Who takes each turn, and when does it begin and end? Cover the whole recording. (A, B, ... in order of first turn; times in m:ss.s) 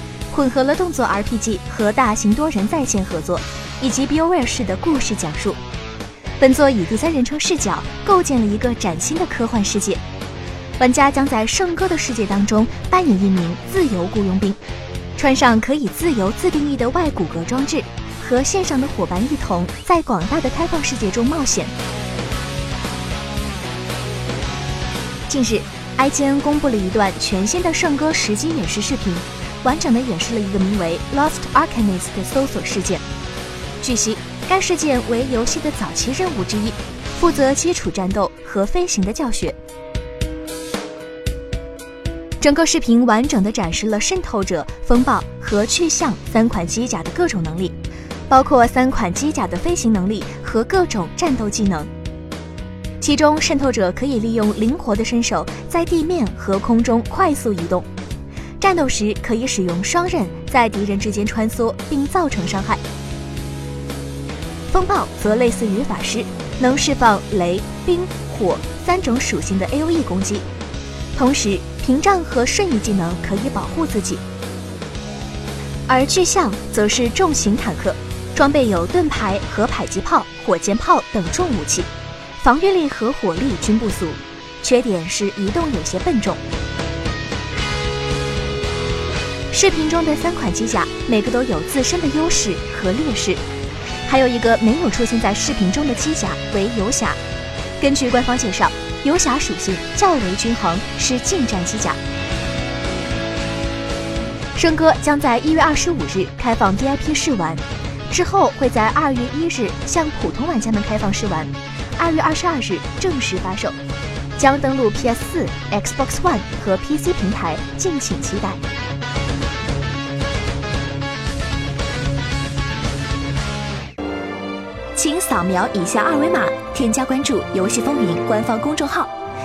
0:00.3-0:05.6 A
0:06.4-0:10.0 A
0:10.8-0:14.6 A
0:15.2-0:21.7 A
0:25.3-0:33.0 A
0:33.8-0:39.6 A
0:42.4-0:47.8 A
0:48.3-0:51.9 A
0:53.0-0:57.9 A
0:58.6-1:02.8 A
1:04.7-1:10.4 A
1:11.2-1:14.2 A
1:15.9-1:21.9 A
1:22.4-1:26.4 A
1:29.5-1:33.4 A
1:34.0-1:37.2 A
1:37.8-1:42.0 A
1:44.6-1:53.8 A
1:54.4-1:58.6 A
2:05.0-2:09.1 A